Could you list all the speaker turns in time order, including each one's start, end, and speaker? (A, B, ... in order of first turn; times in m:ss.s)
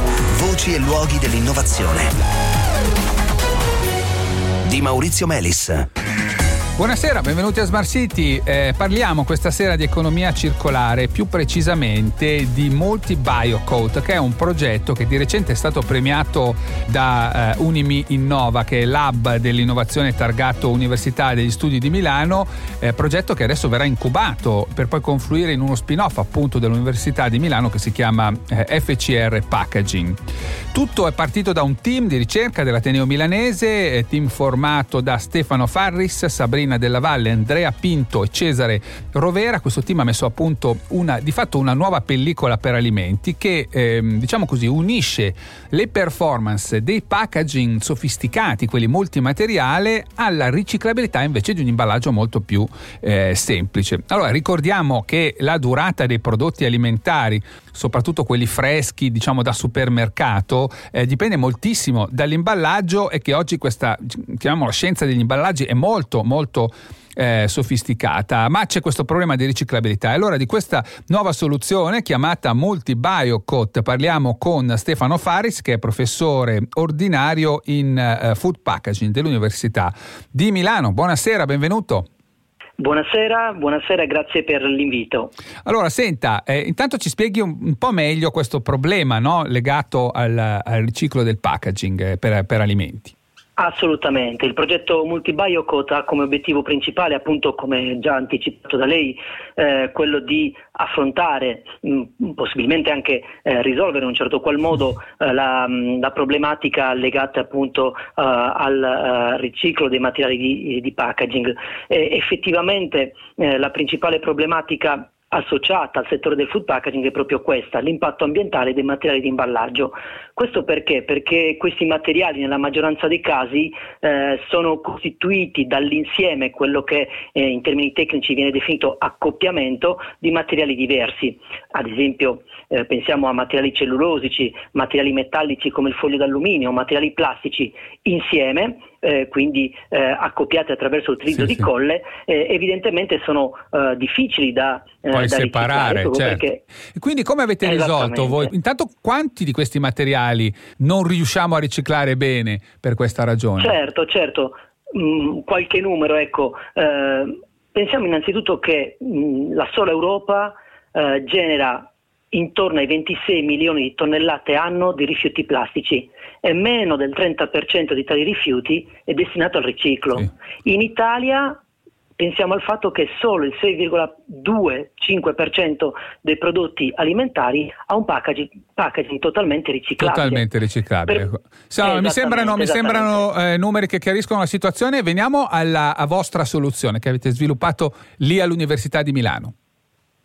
0:00.3-0:02.1 A
0:04.6-0:05.8 A
0:06.8-0:30.2 B
0:30.7-1:22.0 B
1:22.8-1:25.3 C
1:25.6-1:33.1 B
1:33.6-2:26.6 C
2:21.4-2:21.7 B
2:25.1-2:33.8 B
2:27.6-2:28.5 C
2:33.6-2:51.6 C
2:52.2-3:00.5 C
3:00.0-3:09.5 B
3:01.1-3:03.2 C